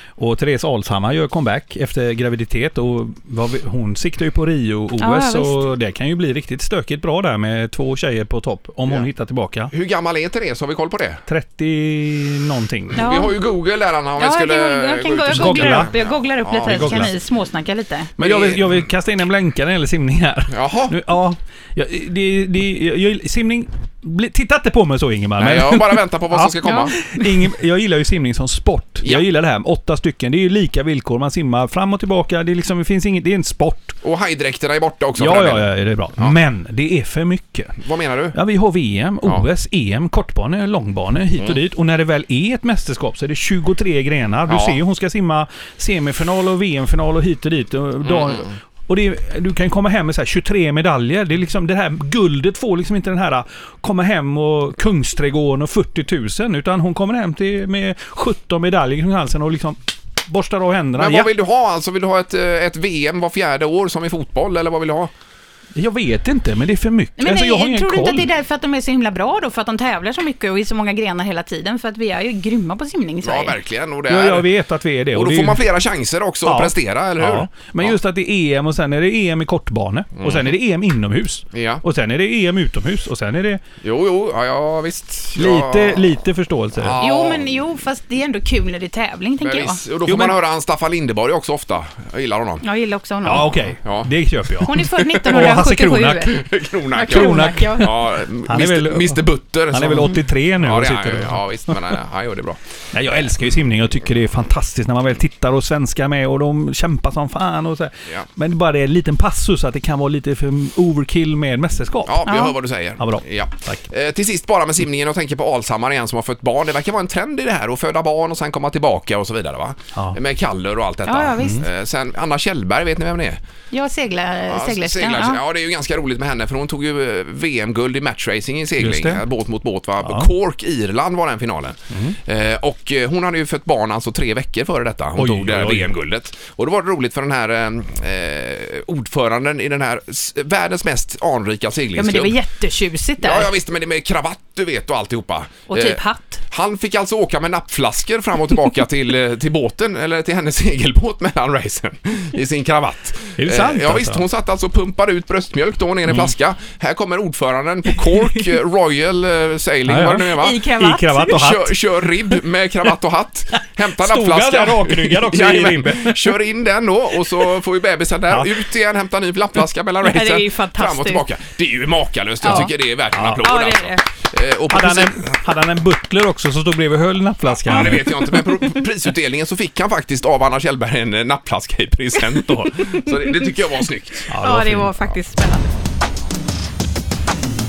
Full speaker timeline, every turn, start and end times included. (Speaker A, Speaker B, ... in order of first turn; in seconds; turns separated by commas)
Speaker A: 0.2-9.7, Speaker B: 5.0-5.6, Speaker C: 9.7-11.2, Speaker A: 11.3-13.0, Speaker C: 12.9-17.1, Speaker B: 12.9-13.3, Speaker B: 14.2-18.1, Speaker A: 15.3-15.9, Speaker A: 16.6-17.1, Speaker C: 18.2-18.9, Speaker A: 18.2-34.0, Speaker C: 20.5-21.0, Speaker C: 25.4-26.9, Speaker C: 34.0-36.3, Speaker A: 35.2-37.8, Speaker C: 37.8-38.4, Speaker A: 38.3-61.3, Speaker C: 44.5-44.8, Speaker C: 48.0-48.5, Speaker C: 61.0-65.1, Speaker A: 65.8-68.2, Speaker B: 67.2-73.6, Speaker C: 73.2-74.5, Speaker A: 74.1-75.6, Speaker C: 75.1-77.9, Speaker A: 76.4-83.6, Speaker C: 80.2-80.5, Speaker C: 81.5-81.8, Speaker C: 83.8-86.1, Speaker A: 85.3-87.0, Speaker C: 86.8-87.6, Speaker B: 87.0-89.8, Speaker C: 89.4-92.6, Speaker A: 90.0-90.3, Speaker B: 92.6-93.5, Speaker A: 93.2-96.3, Speaker C: 93.8-94.1, Speaker B: 94.7-98.0, Speaker C: 94.8-95.4, Speaker C: 96.3-102.6, Speaker A: 97.1-101.8, Speaker A: 102.9-112.3, Speaker C: 112.0-123.4, Speaker B: 112.2-112.6, Speaker A: 113.0-113.9, Speaker B: 121.0-121.7, Speaker A: 121.4-121.6, Speaker B: 123.7-125.4, Speaker C: 124.5-142.3, Speaker A: 128.8-129.2, Speaker A: 130.0-130.3, Speaker A: 131.9-132.2, Speaker A: 135.2-135.9, Speaker B: 141.9-143.5, Speaker C: 143.2-146.0, Speaker B: 145.7-146.4, Speaker C: 146.5-160.6, Speaker A: 153.4-154.2, Speaker A: 159.8-161.8, Speaker B: 160.3-161.4, Speaker C: 161.2-175.4, Speaker A: 163.9-166.3, Speaker A: 168.3-168.6, Speaker B: 170.0-171.2, Speaker B: 172.4-172.7, Speaker A: 172.5-173.4, Speaker B: 173.3-174.0, Speaker A: 174.7-178.2, Speaker C: 177.7-184.3, Speaker B: 182.8-183.5, Speaker A: 184.3-184.9, Speaker B: 184.4-185.7